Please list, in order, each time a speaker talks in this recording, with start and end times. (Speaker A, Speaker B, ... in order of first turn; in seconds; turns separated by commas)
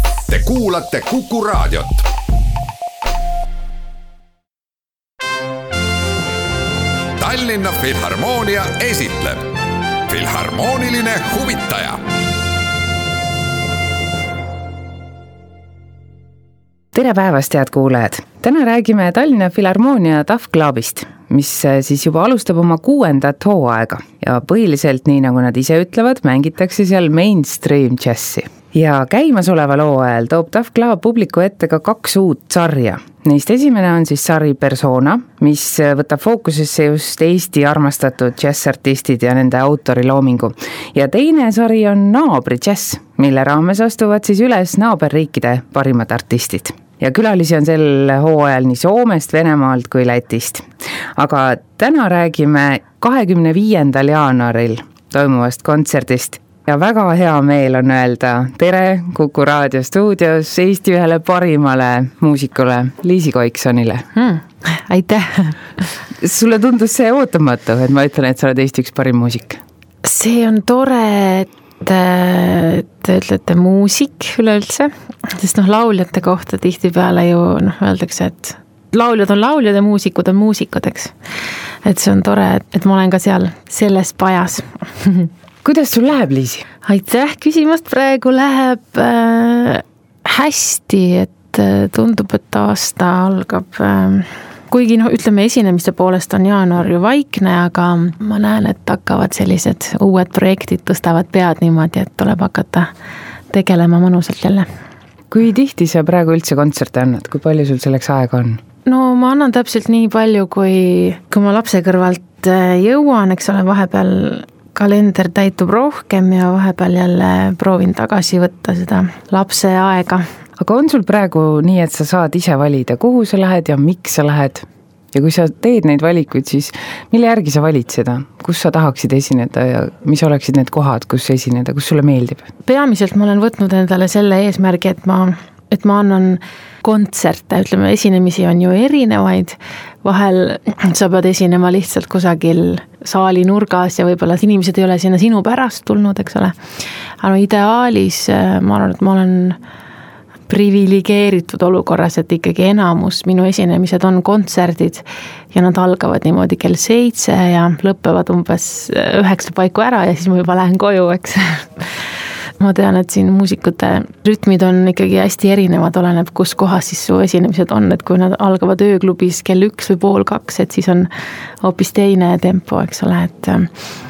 Speaker A: 0.3-2.0, Speaker A: 7.2-9.5, Speaker A: 10.1-12.0, Speaker B: 16.9-50.6, Speaker B: 51.1-64.0, Speaker C: 64.1-65.6, Speaker B: 66.2-69.6, Speaker C: 70.0-81.1, Speaker C: 81.8-85.3, Speaker B: 85.6-86.6, Speaker C: 86.8-102.9, Speaker C: 103.5-104.7, Speaker B: 105.3-108.6, Speaker C: 108.8-120.2, Speaker B: 120.6-132.5, Speaker C: 132.6-146.6, Speaker C: 147.2-149.6, Speaker C: 150.5-161.9, Speaker C: 162.6-171.1, Speaker C: 171.6-173.7